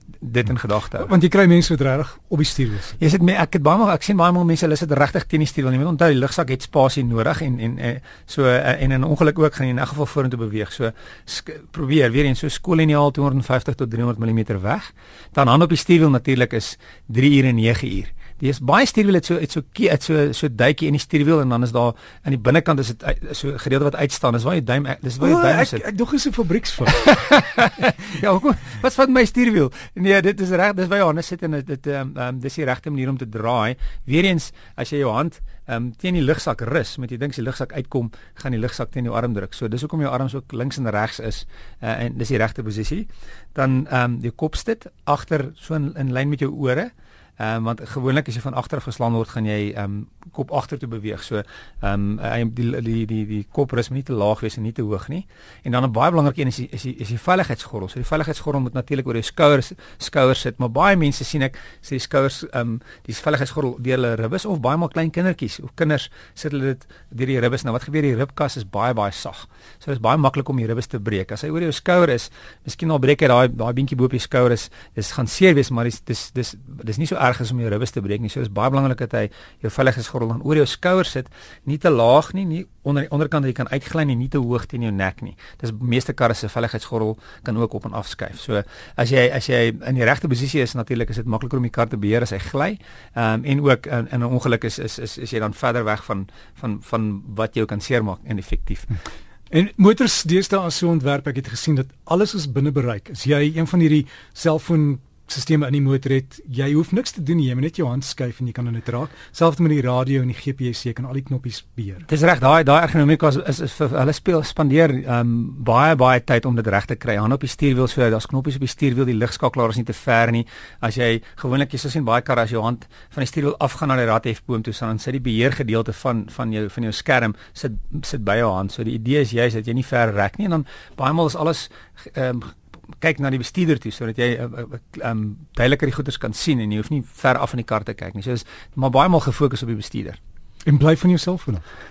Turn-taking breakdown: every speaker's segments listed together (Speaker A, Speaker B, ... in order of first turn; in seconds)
Speaker A: 0.2-1.1, 3.0-25.8, 26.9-98.9, 112.1-140.2
Speaker B: 1.0-3.0, 25.2-27.1, 99.5-112.1, 140.7-141.6